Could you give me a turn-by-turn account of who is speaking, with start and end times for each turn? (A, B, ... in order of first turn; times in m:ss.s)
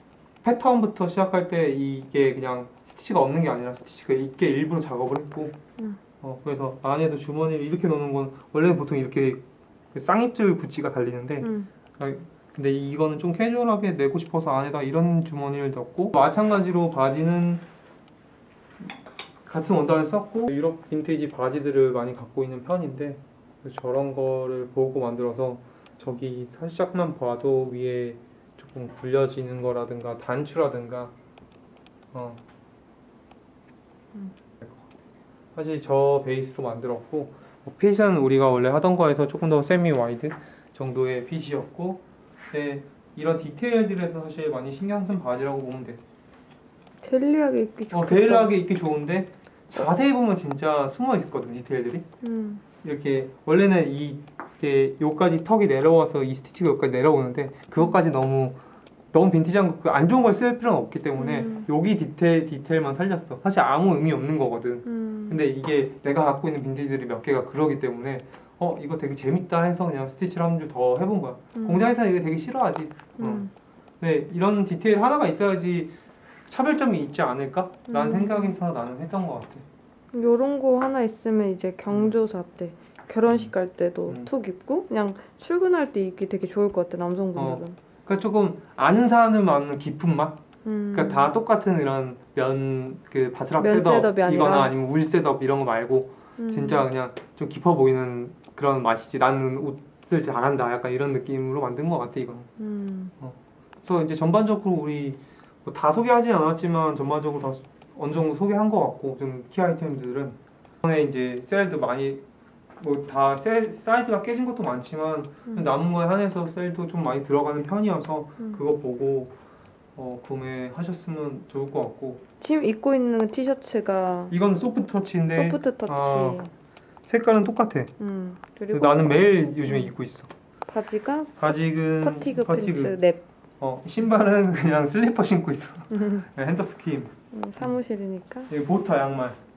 0:00.4-0:05.6 A
0:06.2-0:17.6 A
0:11.4-0:11.7 B
0:19.4-0:31.1 A
0:32.1-0:32.4 A
0:34.6-0:34.9 A
0:35.6-0:46.0 A
0:47.0-0:48.5 B
0:47.9-0:52.1 A
0:52.2-0:52.6 B
0:52.8-0:58.6 A
0:59.1-1:13.5 A
1:01.2-1:01.7 B
1:04.9-1:05.4 B
1:11.6-1:11.9 B
1:13.2-1:13.5 B
1:14.0-1:15.9 A
1:16.5-1:19.6 A
1:17.9-1:18.6 B
1:20.1-1:27.8 B
1:27.4-1:30.4 A
1:30.6-1:31.3 B
1:30.9-1:42.5 A
1:33.6-1:34.7 B
1:36.4-1:36.9 B
1:42.6-1:43.1 B
1:43.2-1:52.2 A
1:52.8-1:59.3 A
2:00.0-2:02.2 A
2:02.4-2:04.4 B
2:04.3-2:06.4 A
2:05.3-2:06.5 B
2:07.1-2:07.9 A
2:08.0-2:09.9 B
2:08.7-2:10.3 A
2:10.7-2:13.2 B
2:11.4-2:13.0 A
2:13.6-2:17.8 A
2:15.9-2:16.3 B
2:17.3-2:18.5 B
2:18.5-2:19.4 A